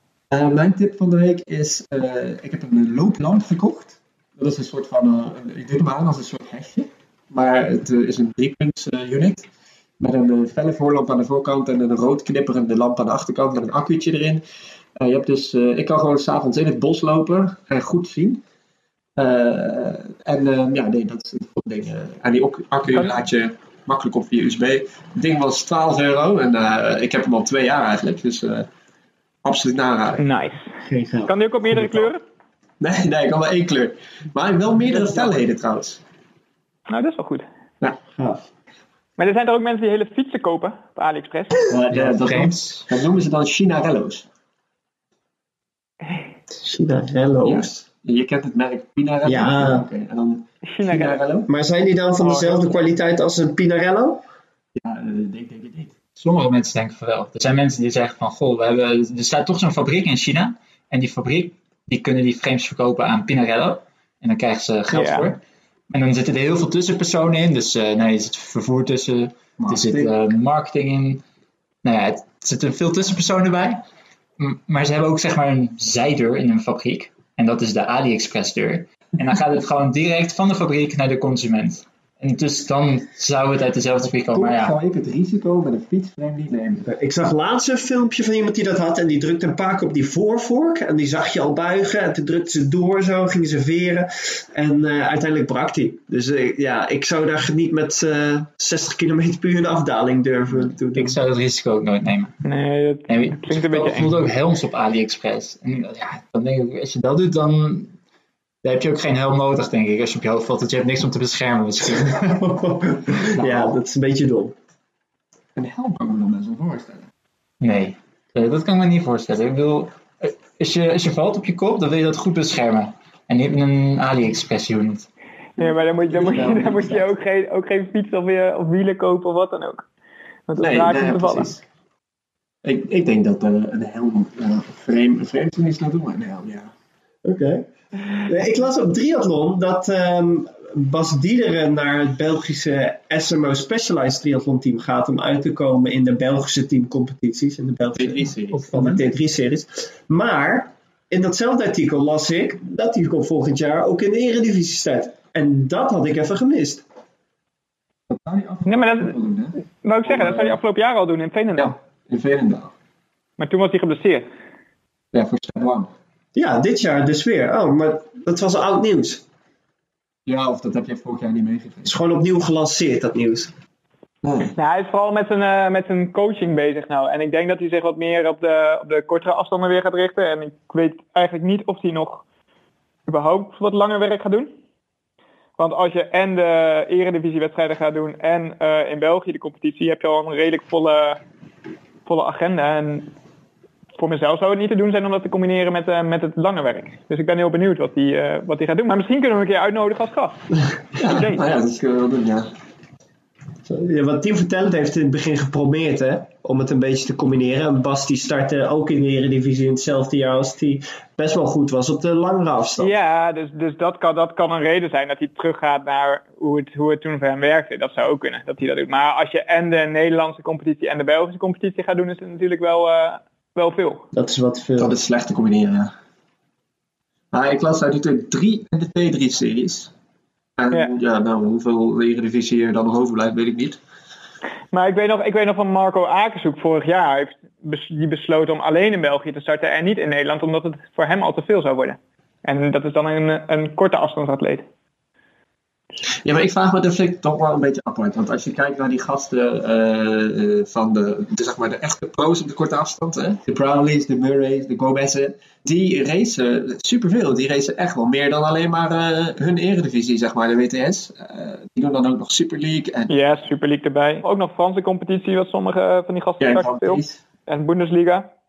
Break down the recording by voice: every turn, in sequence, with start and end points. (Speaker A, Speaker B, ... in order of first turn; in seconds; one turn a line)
Speaker A: 0.3-9.5
Speaker A: 10.0-14.4
Speaker A: 14.9-18.4
Speaker A: 19.2-28.7
Speaker A: 29.4-30.2
Speaker B: 30.2-30.7
Speaker C: 30.8-31.3
Speaker B: 31.2-32.2
Speaker A: 32.8-36.0
Speaker B: 36.9-37.5
Speaker C: 38.1-38.5
Speaker B: 39.2-41.6
Speaker A: 41.7-44.3
Speaker D: 41.9-42.9
Speaker C: 46.6-47.9
Speaker A: 47.4-51.5
Speaker C: 49.2-49.9
Speaker B: 50.6-51.2
Speaker C: 51.5-54.2
Speaker B: 52.2-52.9
Speaker A: 54.8-55.9
Speaker D: 56.1-65.4
Speaker B: 64.9-65.3
Speaker D: 65.9-71.2
Speaker A: 69.6-70.1
Speaker D: 71.8-73.8
Speaker D: 74.4-84.8
Speaker A: 84.2-86.9
Speaker C: 86.9-101.2
Speaker D: 100.9-102.4
Speaker B: 102.4-104.2
Speaker D: 103.1-107.9
Speaker D: 108.6-112.6
Speaker C: 112.1-114.5
Speaker D: 113.1-113.8
Speaker A: 115.5-117.1
Speaker D: 117.6-125.1
Speaker B: 125.6-129.8
Speaker A: 126.1-127.1
Speaker B: 130.5-131.5
Speaker A: 130.6-131.6
Speaker A: 132.6-136.7
Speaker C: 137.2-137.7
Speaker C: 138.2-156.8
Speaker A: 147.9-148.6
Speaker D: 148.5-149.0
Speaker A: 158.1-160.6
Speaker B: 158.7-159.2
Speaker B: 159.8-161.7
Speaker A: 161.6-162.7
Speaker B: 163.4-164.3
Speaker A: 165.1-165.9
Speaker C: 166.3-169.2
Speaker A: 170.2-171.9
Speaker C: 171.8-173.5
Speaker A: 174.2-174.5
Speaker B: 174.6-182.2
Speaker B: 183.1-184.5
Speaker B: 185.6-191.2
Speaker B: 192.1-193.1
Speaker B: 194.0-200.5
Speaker A: 200.9-202.5
Speaker B: 201.0-201.5
Speaker C: 203.7-212.9
Speaker B: 212.8-224.1
Speaker C: 224.1-224.9
Speaker A: 224.8-225.9
Speaker A: 227.3-229.9
Speaker A: 230.6-233.8
Speaker B: 234.7-244.6
Speaker A: 246.2-263.1
Speaker B: 263.1-268.3
Speaker A: 266.4-267.2